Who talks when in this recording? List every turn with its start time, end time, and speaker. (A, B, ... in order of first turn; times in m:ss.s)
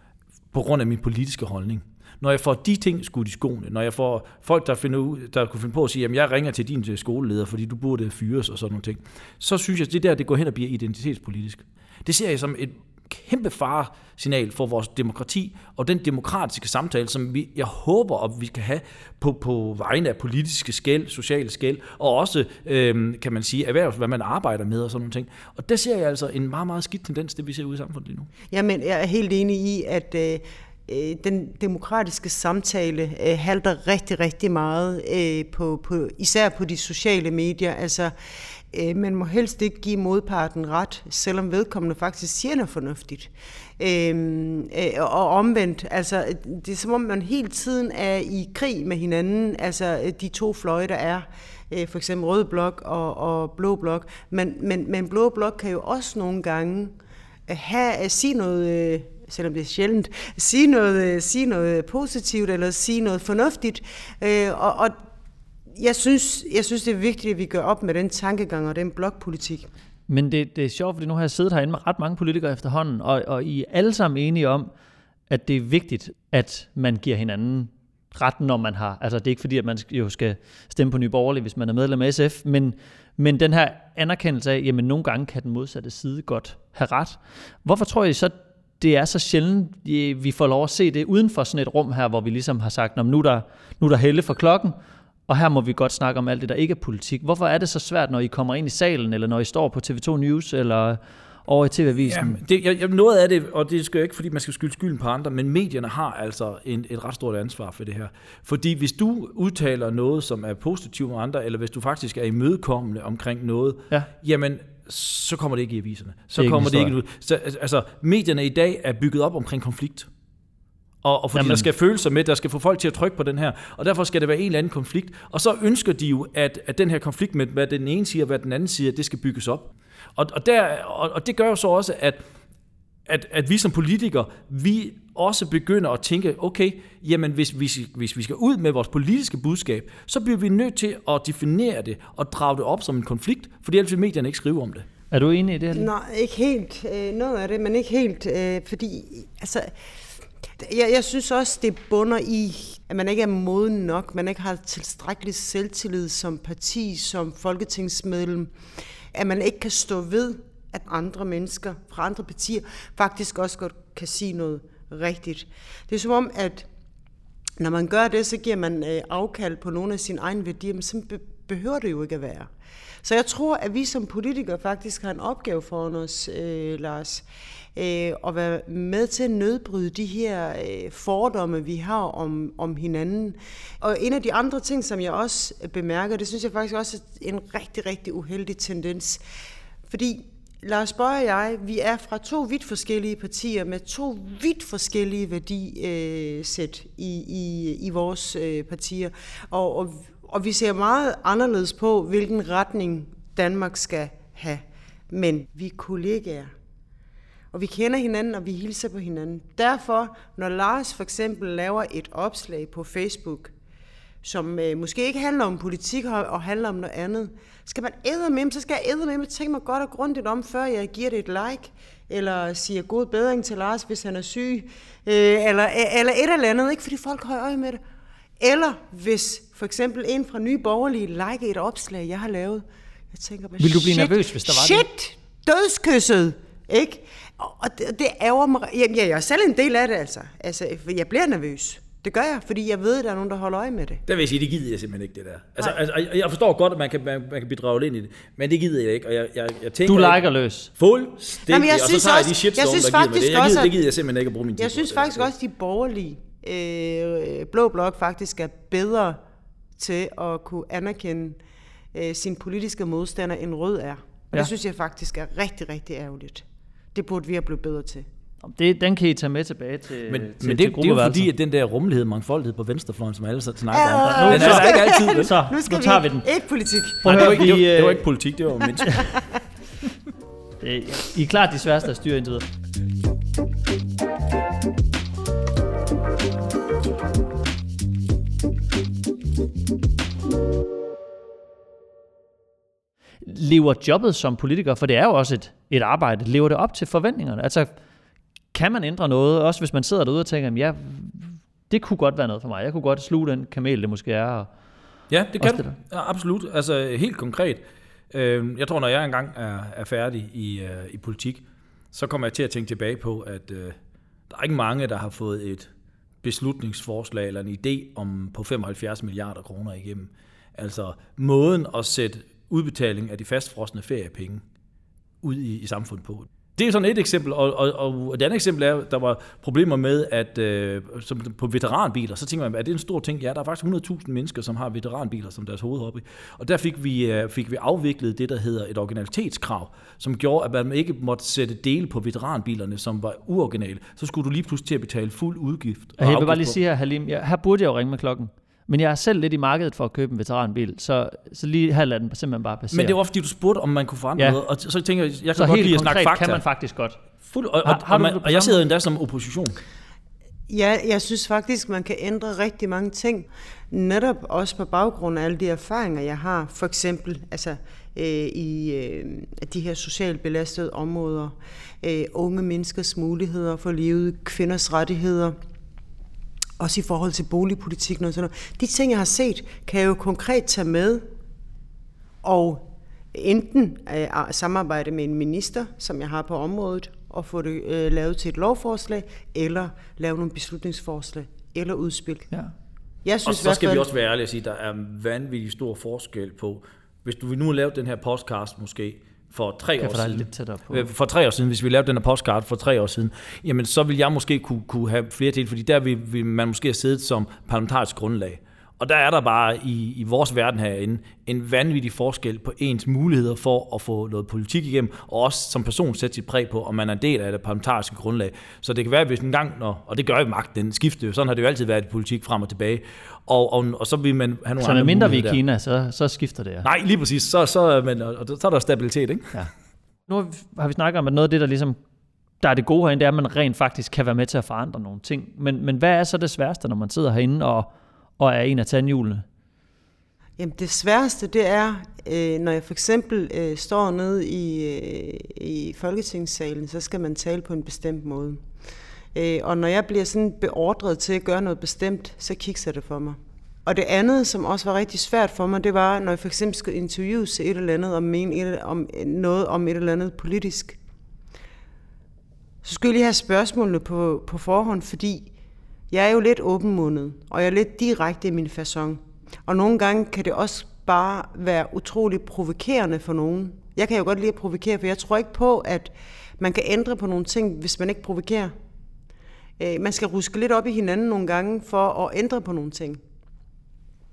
0:00.5-0:28.3 A
0:28.5-0:38.1 B
0:38.7-0:57.0 B
0:57.5-1:05.0 B
1:05.7-1:09.7 B
1:10.1-1:14.7 C
1:15.3-1:34.8 C
1:35.3-1:42.4 C
1:42.1-2:00.1 A
1:56.4-1:56.9 C
2:01.0-2:12.2 A
2:01.4-2:01.7 C
2:13.1-2:24.9 A
2:25.1-2:25.9 C
2:25.7-2:29.7 B
2:30.6-2:38.5 B
2:39.1-2:46.7 B
2:47.6-2:52.5 B
2:53.0-3:09.2 B
3:09.9-3:26.5 B
3:27.5-3:33.5 B
3:34.2-3:47.8 B
3:48.4-4:04.0 B
3:53.6-3:54.9 C
4:04.1-4:10.2 A
4:09.8-4:10.7 C
4:10.8-4:15.3 A
4:11.5-4:13.8 B
4:14.6-4:19.2 B
4:19.8-4:21.4 B
4:21.9-4:28.1 B
4:28.4-4:31.3 C
4:30.1-4:35.4 A
4:33.7-4:37.3 B
4:34.2-4:36.3 C
4:37.0-4:38.1 C
4:37.0-4:39.2 A
4:38.6-4:39.4 B
4:40.6-4:42.5 C
4:53.2-4:57.7 C
4:58.5-5:04.5 C
5:05.1-5:13.8 A
5:05.4-5:05.8 C
5:14.3-5:15.7 A
5:16.2-5:24.4 A
5:25.2-5:46.6 A
5:46.0-5:53.0 C
5:52.7-5:56.4 A
5:55.3-5:57.0 C
5:57.2-5:59.6 A
5:57.6-5:58.6 C
6:00.5-6:15.4 B
6:16.6-6:21.0 B
6:22.2-6:32.3 B
6:33.0-6:33.9 B
6:33.2-7:05.4 A
6:39.8-6:40.9 C
7:04.6-7:06.7 C
7:06.6-7:09.4 A
7:10.1-7:11.8 C
7:12.4-7:19.2 C
7:20.4-7:28.4 B
7:29.1-7:40.8 B
7:42.6-7:45.3 B
7:45.9-7:58.5 B
7:59.6-8:03.0 B